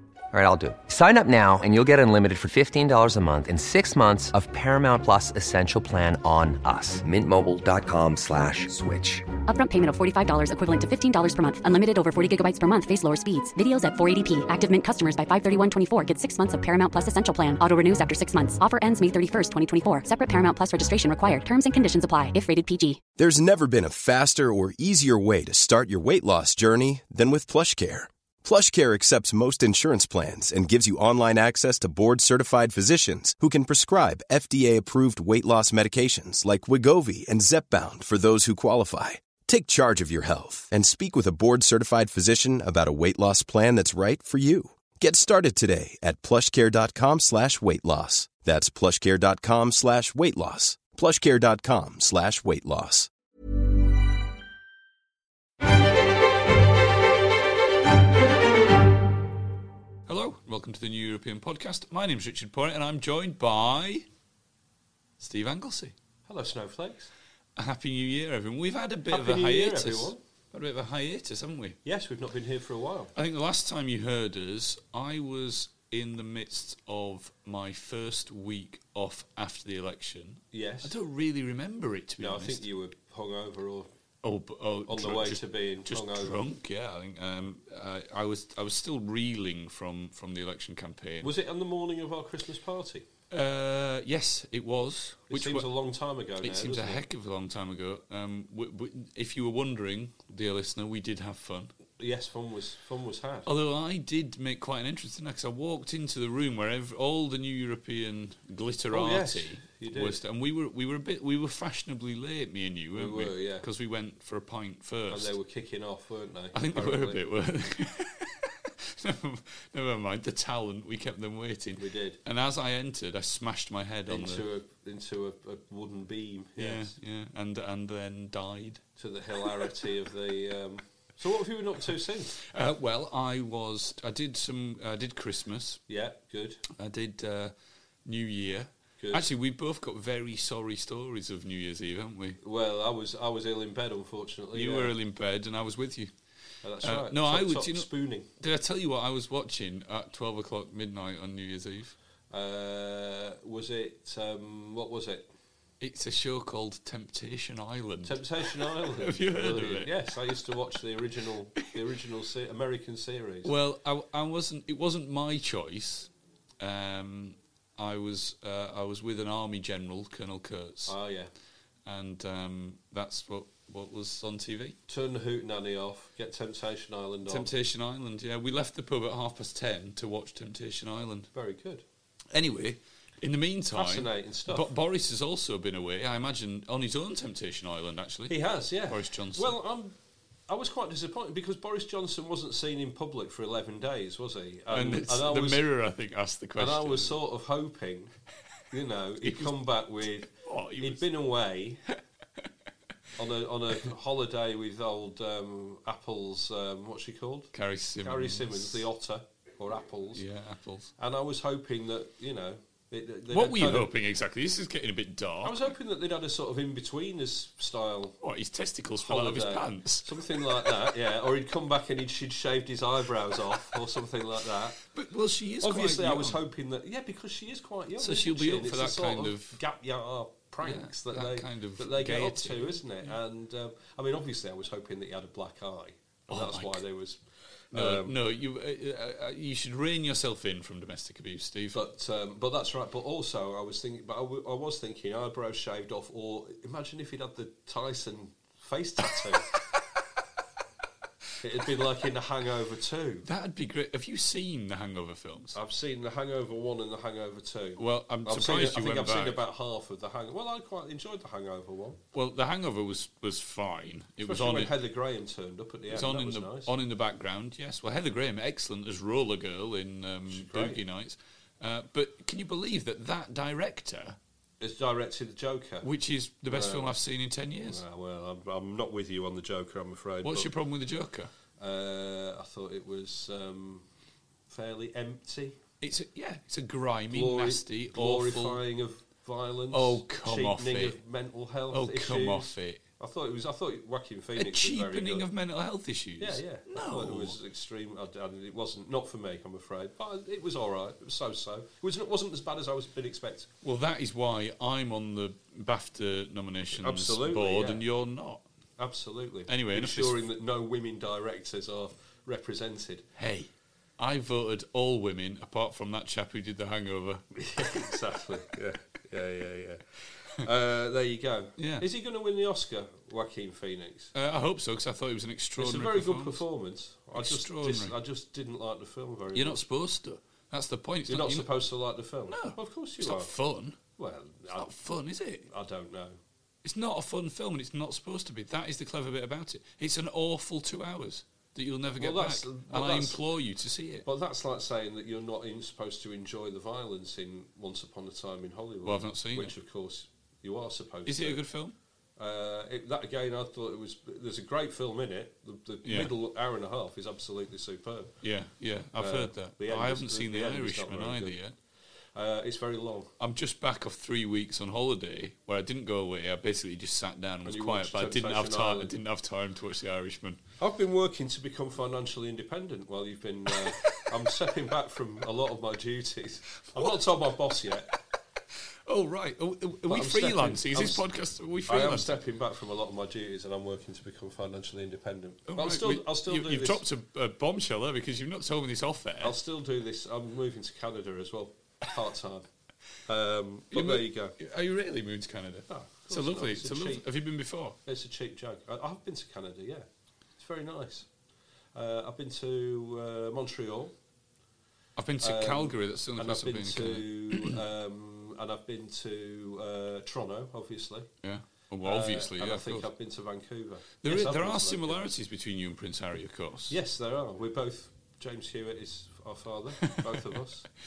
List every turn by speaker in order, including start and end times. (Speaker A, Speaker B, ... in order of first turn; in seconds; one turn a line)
Speaker A: 0.3-9.2
Speaker B: 9.5-23.0
Speaker C: 23.2-53.1
Speaker D: 60.1-64.0
Speaker D: 65.2-65.9
Speaker E: 66.3-67.1
Speaker D: 67.6-71.8
Speaker E: 69.1-70.2
Speaker E: 71.8-73.1
Speaker D: 73.1-82.6
Speaker E: 80.5-80.9
Speaker E: 82.2-83.9
Speaker D: 84.2-91.3
Speaker E: 84.9-86.4
Speaker E: 91.2-93.1
Speaker D: 93.3-95.7
Speaker E: 95.3-97.0
Speaker D: 96.4-101.7
Speaker E: 102.0-103.5
Speaker D: 103.5-115.3
Speaker E: 108.9-110.2
Speaker E: 112.9-113.7
Speaker E: 115.1-117.2
Speaker D: 116.5-124.4
Speaker E: 121.8-122.2
Speaker E: 124.1-126.9
Speaker D: 126.6-128.8
Speaker E: 129.0-132.4
Speaker D: 132.4-135.8
Speaker E: 135.9-136.6
Speaker D: 136.7-137.5
Speaker D: 138.0-142.4
Speaker E: 139.0-139.3
Speaker E: 142.4-144.9
Speaker D: 144.5-146.1
Speaker E: 146.6-148.3
Speaker D: 146.8-151.9
Speaker E: 152.3-155.3
Speaker D: 155.8-159.9
Speaker E: 158.0-163.5
Speaker D: 163.4-170.9
Speaker E: 170.9-171.3
Speaker D: 171.8-174.8
Speaker E: 174.9-177.5
Speaker D: 177.3-181.3
Speaker E: 181.3-181.8
Speaker D: 182.3-189.6
Speaker E: 183.8-184.7
Speaker E: 188.3-189.9
Speaker E: 190.5-195.6
Speaker D: 194.7-197.2
Speaker E: 196.6-198.1
Speaker E: 198.7-201.8
Speaker D: 199.2-199.7
Speaker D: 200.3-201.1
Speaker E: 203.2-210.2
Speaker D: 207.5-208.8
Speaker D: 210.1-210.9
Speaker E: 211.0-213.9
Speaker D: 213.3-215.7
Speaker E: 215.4-218.2
Speaker D: 218.2-220.7
Speaker E: 219.0-224.8
Speaker D: 224.9-226.4
Speaker E: 225.6-237.2
Speaker D: 228.0-229.6
Speaker D: 230.6-233.1
Speaker D: 236.3-236.8
Speaker E: 237.7-238.1
Speaker D: 237.7-241.8
Speaker E: 241.7-249.5
Speaker E: 251.4-253.2
Speaker D: 253.2-255.6
Speaker E: 255.5-262.0
Speaker D: 257.8-259.4
Speaker D: 262.1-264.7
Speaker E: 264.2-266.7
Speaker D: 265.9-274.2
Speaker E: 270.3-270.8
Speaker E: 274.6-275.9
Speaker D: 275.8-277.8
Speaker E: 276.5-276.9
Speaker E: 277.6-280.5
Speaker D: 280.2-281.3
Speaker E: 281.6-283.8
Speaker E: 284.5-285.6
Speaker D: 285.8-288.6
Speaker E: 287.1-295.2
Speaker D: 289.7-291.0
Speaker D: 291.7-292.8
Speaker D: 294.4-297.4
Speaker E: 296.2-303.5
Speaker D: 303.6-308.4
Speaker E: 306.8-307.8
Speaker E: 308.8-313.1
Speaker D: 309.5-310.3
Speaker D: 313.2-317.8
Speaker E: 317.3-319.8
Speaker E: 320.4-324.1
Speaker D: 321.6-321.9
Speaker D: 324.1-326.4
Speaker E: 325.6-329.6
Speaker D: 327.1-327.9
Speaker D: 329.3-331.5
Speaker E: 331.1-333.3
Speaker D: 332.3-333.8
Speaker E: 334.0-334.7
Speaker D: 334.5-335.5
Speaker E: 335.4-336.2
Speaker D: 336.6-344.1
Speaker E: 342.0-343.2
Speaker E: 344.0-351.4
Speaker D: 348.8-349.5
Speaker D: 351.1-351.7
Speaker E: 352.2-358.1
Speaker D: 355.8-356.1
Speaker D: 358.2-361.5
Speaker E: 359.0-361.4
Speaker E: 362.1-363.1
Speaker D: 363.2-370.4
Speaker E: 367.4-368.9
Speaker E: 370.6-377.9
Speaker D: 376.6-377.0
Speaker D: 378.9-382.2
Speaker E: 379.9-381.0
Speaker E: 381.6-386.8
Speaker D: 385.5-389.4
Speaker E: 389.2-392.4
Speaker E: 393.1-394.4
Speaker D: 393.7-397.8
Speaker E: 395.7-397.0
Speaker E: 397.9-399.9
Speaker E: 400.4-401.1
Speaker E: 401.7-403.9
Speaker D: 405.0-407.6
Speaker E: 405.2-411.1
Speaker D: 411.2-412.9
Speaker E: 411.8-415.1
Speaker D: 414.0-416.7
Speaker E: 416.7-420.6
Speaker D: 419.8-420.4